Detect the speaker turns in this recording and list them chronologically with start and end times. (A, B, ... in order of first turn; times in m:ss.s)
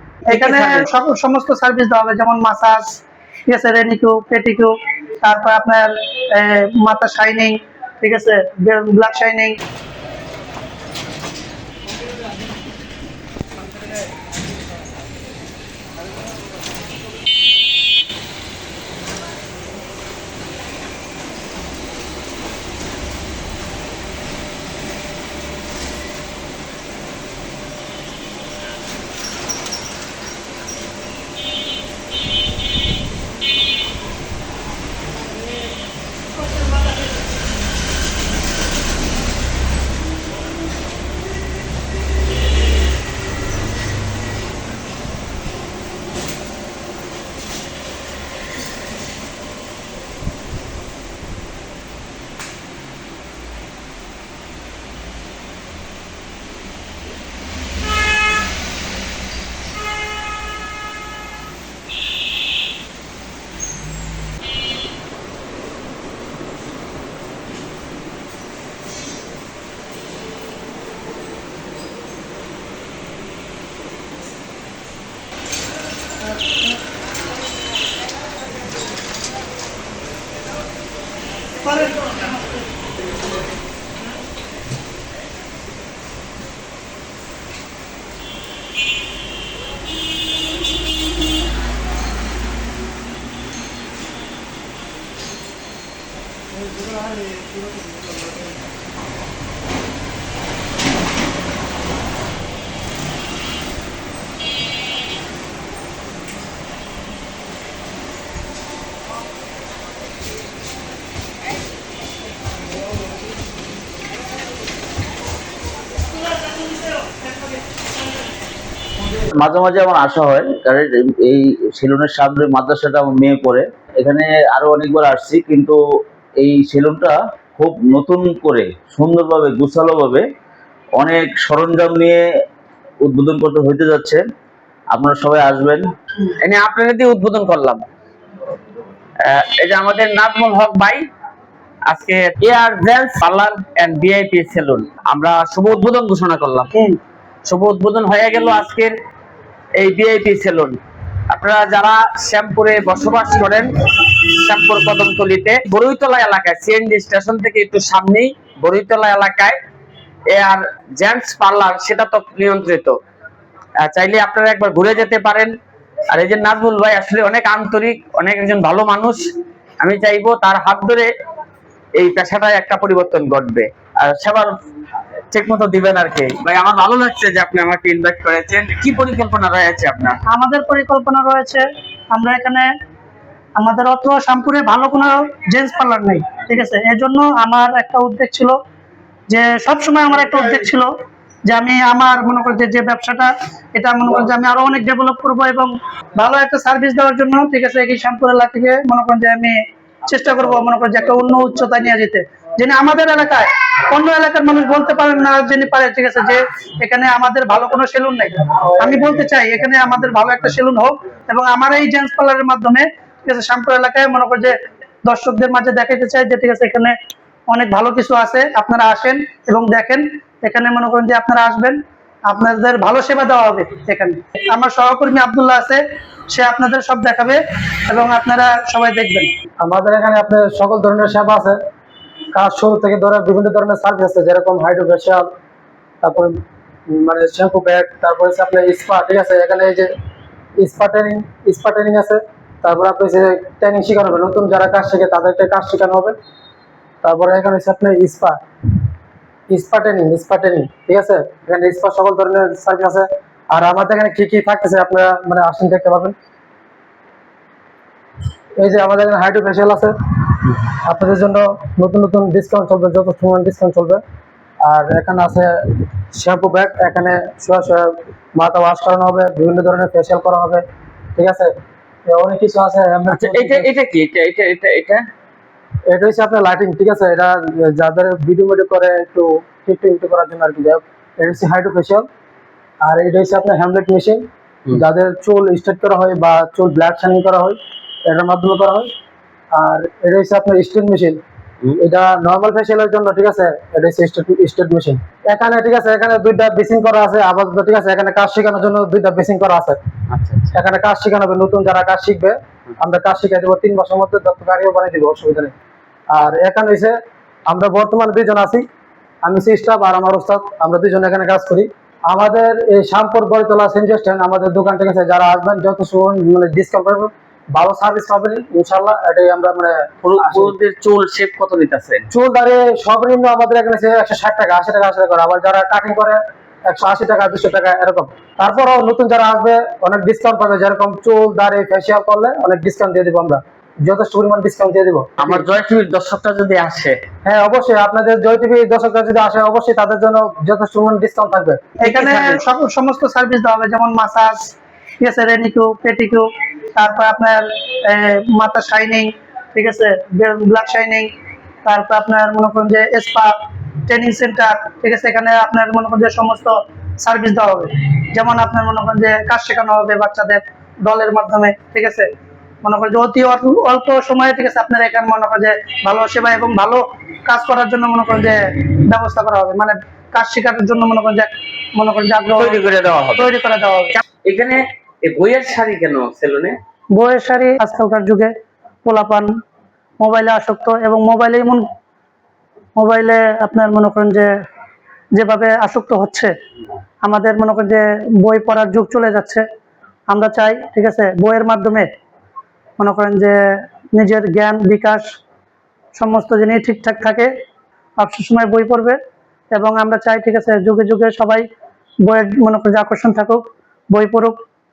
0:00.3-0:00.8 A
0:00.3-0:09.5 B
1:59.3-2:05.8 C
2:06.4-2:10.2 C
2:11.0-2:12.2 C
2:13.0-2:14.2 C
2:14.9-2:15.8 C
2:16.3-2:17.8 A
2:19.2-2:21.0 A
2:21.9-2:26.7 A
2:27.5-2:28.9 A
2:29.8-2:30.8 A
2:31.3-2:39.6 A
2:40.3-2:43.0 A
2:43.8-2:45.5 A
2:46.1-2:49.2 A
2:49.8-2:51.1 A
2:52.0-2:54.6 A
2:55.3-3:00.2 A
3:00.3-3:02.7 B
3:03.6-3:08.6 B
3:09.3-3:10.9 B
3:11.5-3:36.9 B
3:37.5-3:49.3 B
3:49.6-3:51.6 D
3:52.3-3:55.3 D
3:56.0-3:59.9 D
4:00.6-4:06.2 D
4:07.0-4:08.4 D
4:09.5-4:16.1 D
4:18.6-4:24.0 D
4:24.6-4:30.6 D
4:31.2-4:31.5 D
4:32.1-4:33.7 D
4:33.1-4:35.0 A
4:35.9-4:42.1 D
4:42.8-4:48.9 D
4:49.5-4:51.2 D
4:51.8-4:59.8 D
5:00.1-5:00.6 A
5:00.5-5:05.6 D
5:06.1-5:08.6 D
5:09.2-5:20.5 D
5:20.0-5:22.1 A
5:22.1-5:35.5 D
5:35.2-5:37.0 A
5:37.2-5:41.6 D
5:41.8-5:44.5 B
5:41.8-5:42.4 A
5:45.0-5:51.1 B
5:51.6-5:53.3 B
5:53.9-6:02.1 B
6:02.6-6:12.6 B
6:12.4-6:13.3 A
6:13.2-6:14.0 B
6:14.2-6:16.6 A
6:17.0-6:18.3 B
6:18.8-6:19.3 B
6:20.0-6:21.6 B
6:22.8-6:24.3 B
6:25.1-6:26.3 B
6:27.0-6:29.4 B
6:30.1-6:31.9 B
6:32.8-6:33.4 B
6:33.9-6:35.0 B
6:36.0-6:37.3 B
6:38.0-6:39.0 B
6:39.5-6:41.4 B
6:42.1-6:44.4 B